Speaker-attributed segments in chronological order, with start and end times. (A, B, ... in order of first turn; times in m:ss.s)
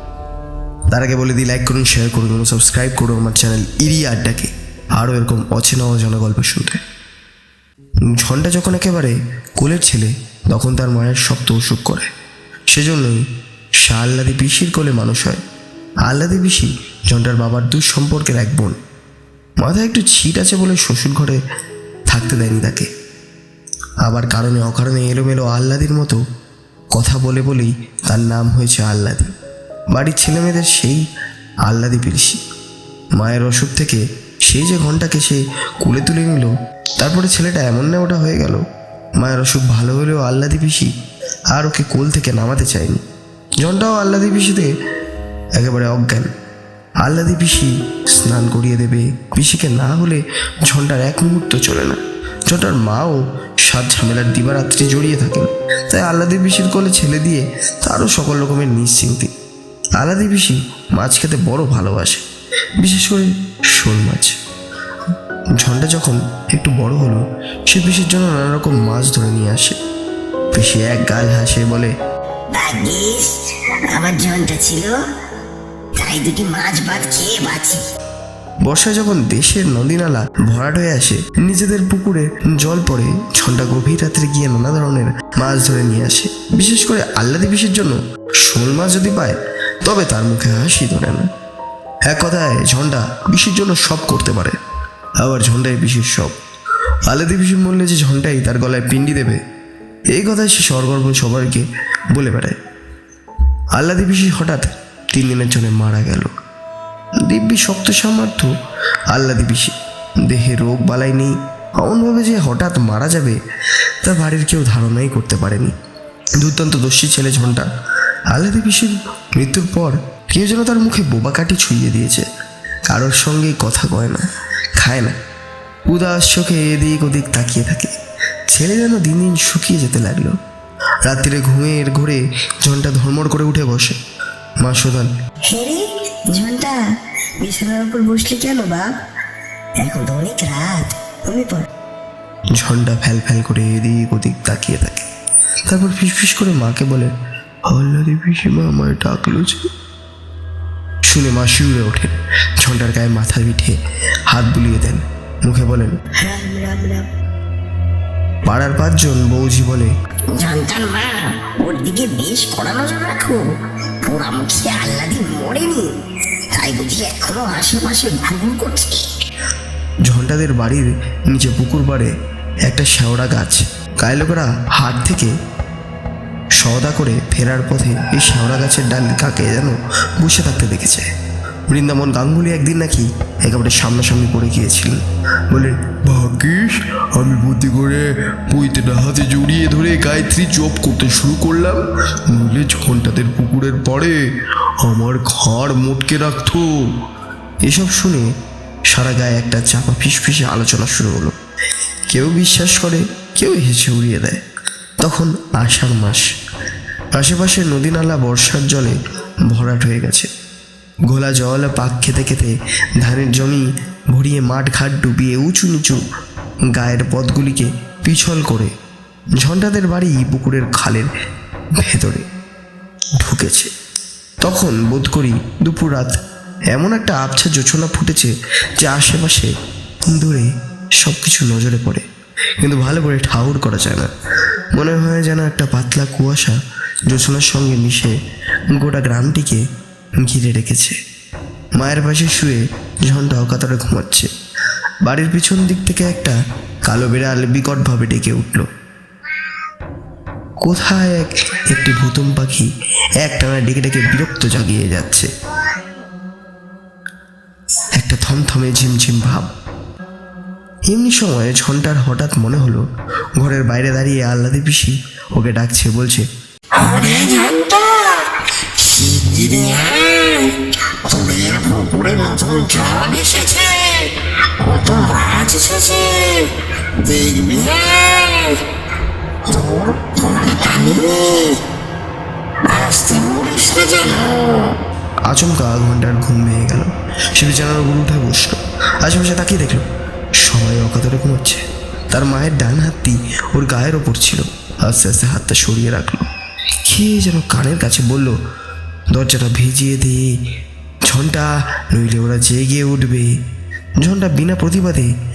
0:00.9-0:06.8 A
0:08.1-0:12.1 A
0:12.7-0:13.2 A
0:13.8-0:15.4 A
0:16.0-0:18.8 A
0:19.6-0:21.4 A
0:22.1-0:22.9 A
0:24.0-0:26.2 A
0:26.9-0:29.3 A
0:29.9-0:31.0 A
0:31.6-0:32.4 A
0:33.2-0:38.6 A
0:39.2-0:40.9 A
0:41.5-0:43.0 A
0:43.6-0:44.7 A
0:45.6-0:46.3 A
0:47.0-0:59.3 A
1:00.0-1:02.2 A
1:02.8-1:04.4 A
1:05.6-1:09.8 A
1:10.5-1:11.9 A
1:12.5-1:13.4 B
1:13.9-1:14.9 B
1:16.0-1:17.8 B
1:18.6-1:31.3 A
1:32.1-1:34.6 A
1:35.2-1:36.4 A
1:37.1-1:39.4 A
1:40.1-1:42.6 A
1:43.7-1:46.3 A
1:47.2-1:48.5 A
1:49.1-1:49.7 A
1:50.3-1:53.4 A
1:54.0-1:55.7 A
1:56.4-1:57.7 A
1:58.3-2:02.2 A
2:02.9-2:04.2 A
2:04.8-2:05.1 A
2:05.9-2:07.9 A
2:08.5-2:10.3 A
2:11.0-2:14.0 A
2:14.6-2:15.1 A
2:15.5-2:16.8 B
2:17.4-2:18.8 B
2:19.8-2:21.7 B
2:22.6-2:25.1 A
2:25.7-2:27.1 A
2:27.7-2:29.7 A
2:31.1-2:33.8 A
2:34.3-2:36.0 A
2:36.2-2:37.1 B
2:38.5-2:39.9 A
2:40.3-2:43.4 B
2:44.0-2:45.9 B
2:46.5-2:49.1 B
2:50.0-2:52.1 A
2:52.7-2:55.3 A
2:56.6-3:01.1 A
3:01.7-3:14.2 A
3:14.8-3:16.7 A
3:17.7-3:18.3 A
3:18.9-3:21.3 A
3:22.1-3:24.4 A
3:25.0-3:26.2 A
3:27.1-3:29.0 A
3:29.5-3:30.3 A
3:31.1-3:36.0 A
3:36.7-3:38.7 A
3:39.4-3:41.1 A
3:41.8-3:42.2 A
3:43.2-3:43.7 A
3:44.4-3:46.2 A
3:46.7-3:49.5 A
3:50.1-3:50.5 A
3:51.0-3:52.0 A
3:52.6-3:54.1 A
3:54.7-3:56.6 A
3:57.1-3:58.1 A
3:58.7-3:59.6 A
4:00.2-4:01.0 A
4:01.8-4:04.3 A
4:05.0-4:08.6 A
4:10.6-4:12.7 A
4:13.2-4:15.3 A
4:18.0-4:19.5 A
4:20.9-4:22.8 A
4:23.4-4:26.2 A
4:26.7-4:28.2 C
4:28.8-4:38.6 C
4:33.1-4:33.6 B
4:35.3-4:36.0 B
4:39.5-4:41.6 C
4:40.6-4:40.9 B
4:42.6-4:44.7 C
4:45.3-4:49.8 A
4:50.4-4:56.2 A
4:56.8-4:58.3 A
4:59.1-5:00.3 A
5:01.1-5:03.3 A
5:04.0-5:05.1 A